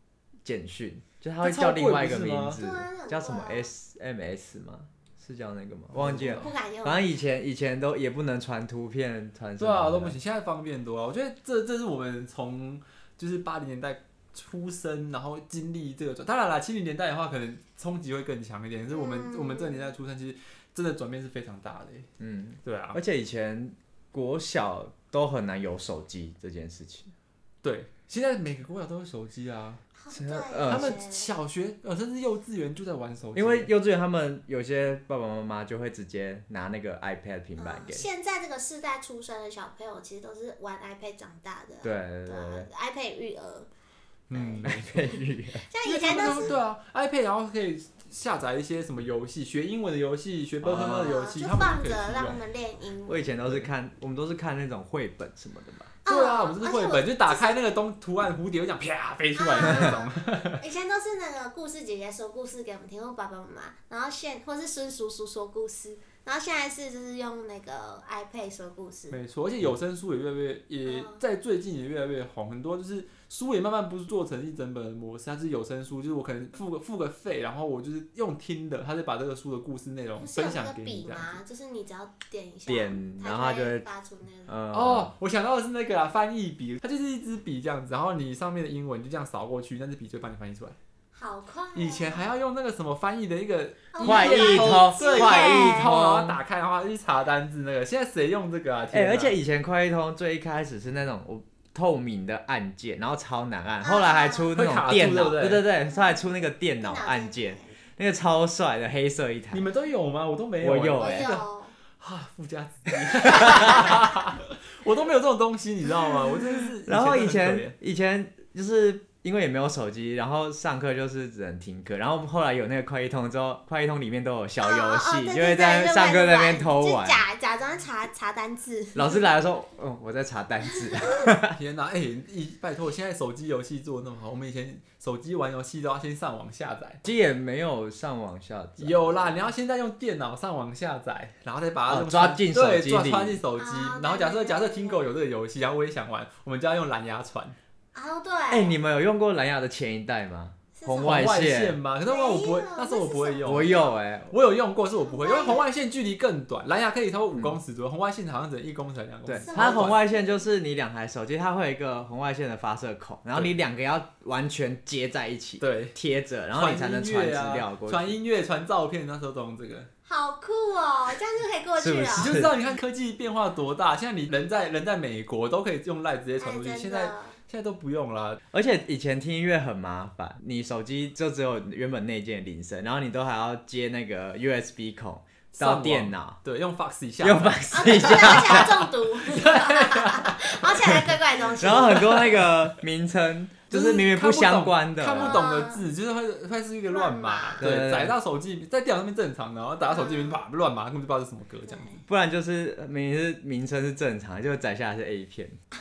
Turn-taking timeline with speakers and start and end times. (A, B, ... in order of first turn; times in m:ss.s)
0:00.4-0:10.2 A
0:01.4-0:02.6 B
0:02.6-0:03.7 C
0:05.9-0:06.5 B
0:06.3-0:07.1 C
0:09.6-0:22.1 B
0:18.9-0:19.9 C
0:22.2-0:27.1 A
0:22.6-0:23.0 B
0:27.6-0:29.8 B
0:30.0-0:31.3 C
0:30.1-0:31.0 A
0:30.7-0:33.7 B
0:33.4-0:38.1 A
0:37.6-0:43.7 C
0:41.8-0:42.7 A
0:44.3-0:45.0 B
0:44.3-0:45.1 C
0:44.6-0:45.6 A
0:45.7-0:46.6 C
0:45.8-0:52.4 B
0:50.6-0:51.2 A
0:50.7-0:53.4 C
0:53.1-0:55.9 A
0:56.0-0:57.8 C
0:56.1-1:00.6 B
0:59.4-1:09.2 C
1:09.1-1:21.4 B
1:10.8-1:11.2 C
1:20.2-1:24.5 C
1:22.7-1:23.8 A
1:24.5-1:25.1 A
1:24.7-1:30.8 B
1:31.2-1:32.2 C
1:31.8-1:39.4 B
1:33.9-1:35.9 C
1:34.0-1:36.4 A
1:38.9-1:49.6 A
1:43.8-1:44.6 C
1:44.6-1:45.6 B
1:45.9-1:46.2 C
1:46.8-1:47.7 C
1:49.5-1:51.4 B
1:50.6-1:51.4 A
1:51.0-1:51.7 C
1:52.0-1:57.7 B
1:53.2-1:54.0 A
1:53.3-1:54.0 C
1:56.8-2:07.2 A
2:04.6-2:09.2 C
2:09.0-2:11.6 A
2:11.0-2:11.2 C
2:11.5-2:17.0 B
2:17.0-2:19.4 A
2:18.8-2:27.6 B
2:21.9-2:23.4 A
2:23.6-2:25.1 C
2:27.9-2:28.8 C
2:28.5-2:31.8 A
2:30.8-2:31.2 C
2:31.0-2:40.0 B
2:32.0-2:34.0 C
2:33.4-2:34.3 A
2:35.1-2:35.6 C
2:39.3-2:48.2 A
2:39.4-2:40.4 C
2:45.6-2:46.0 B
2:46.5-2:49.9 B
2:50.1-2:52.4 C
2:51.8-2:52.6 A
2:52.1-2:58.4 B
2:56.4-2:57.4 C
2:58.5-3:06.4 A
3:05.5-3:08.3 B
3:07.2-3:08.9 A
3:07.7-3:12.4 C
3:09.3-3:10.6 B
3:11.6-3:15.4 A
3:13.7-3:22.0 B
3:15.2-3:15.8 C
3:16.9-3:17.6 C
3:17.6-3:18.2 A
3:19.9-3:20.4 C
3:21.7-3:22.0 C
3:22.1-3:25.6 A